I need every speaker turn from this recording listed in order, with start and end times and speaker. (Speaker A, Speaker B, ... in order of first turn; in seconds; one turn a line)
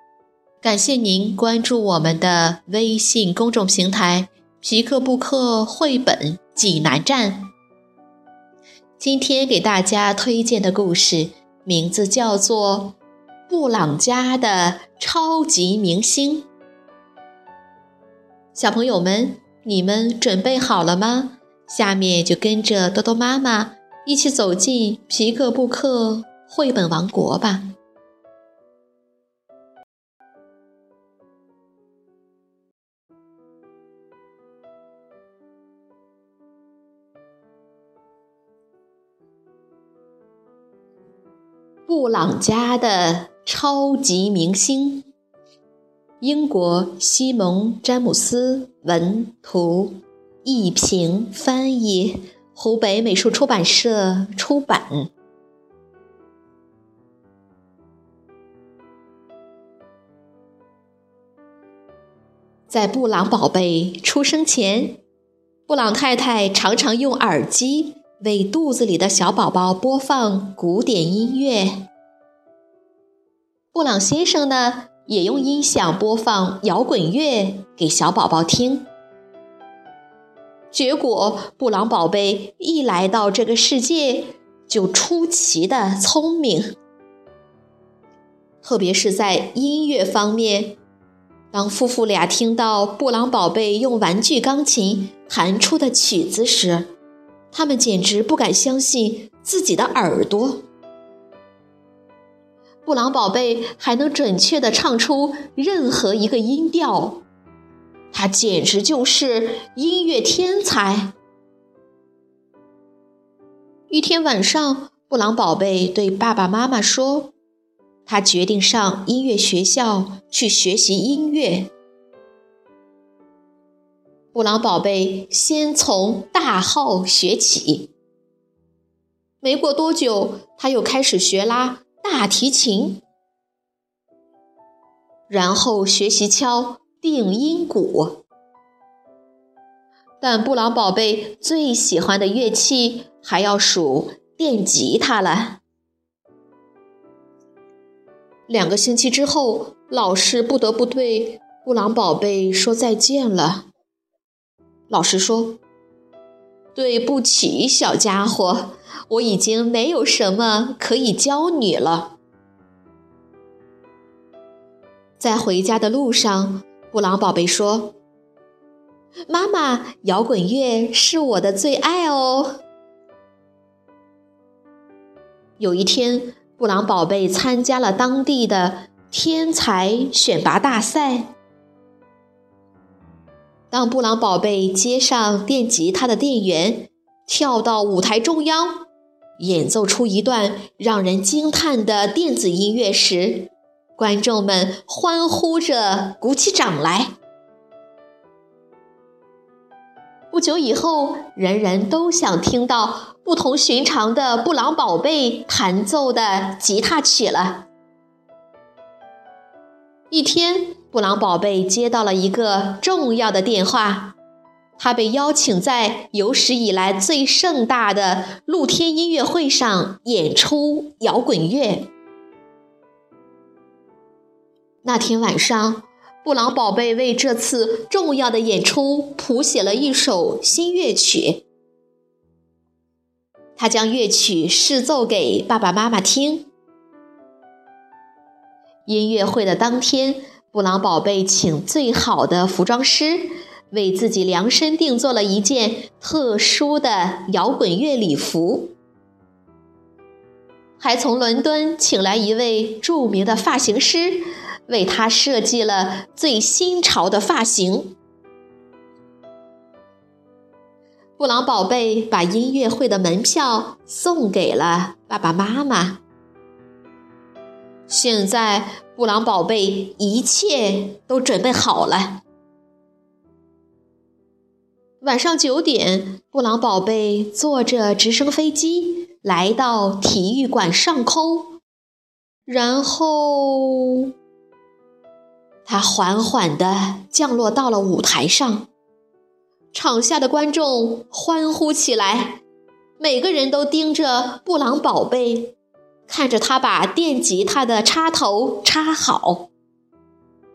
Speaker A: 0.6-7.5
Speaker A: 9.0-12.9
Speaker A: 13.5-16.5
Speaker A: 18.5-27.7
Speaker A: 41.9-45.1
Speaker A: 46.2-55.1
Speaker A: 62.7-65.0
Speaker A: 65.7-71.9
Speaker A: 73.7-78.9
Speaker A: 80.7-86.8
Speaker A: 88.6-90.8
Speaker A: 91.5-96.9
Speaker A: 97.5-100.7
Speaker A: 102.8-107.2
Speaker A: 108.1-111.1
Speaker A: 113.9-117.3
Speaker A: 118.0-121.7
Speaker A: 124.3-127.9
Speaker A: 129.4-133.0
Speaker A: 135.3-138.2
Speaker A: 140.2-145.6
Speaker A: 148.5-153.7
Speaker A: 154.9-155.6
Speaker A: 156.7-162.2
Speaker A: 165.2-167.9
Speaker A: 169.3-172.6
Speaker A: 175.6-181.3
Speaker A: 183.7-188.8
Speaker A: 189.4-197.1
Speaker A: 200.3-207.7
Speaker A: 210.1-214.1
Speaker A: 214.8-221.9
Speaker A: 224.8-231.4
Speaker A: 233.6-236.5
Speaker A: 238.8-248.8
Speaker A: 250.8-257.9
Speaker A: 261.2-266.0
Speaker A: 267.9-272.2
Speaker A: 275.0-281.6
Speaker A: 282.5-284.1
Speaker A: 285.6-288.7
Speaker A: 289.7-292.4
Speaker A: 293.0-295.5
Speaker A: 296.1-299.5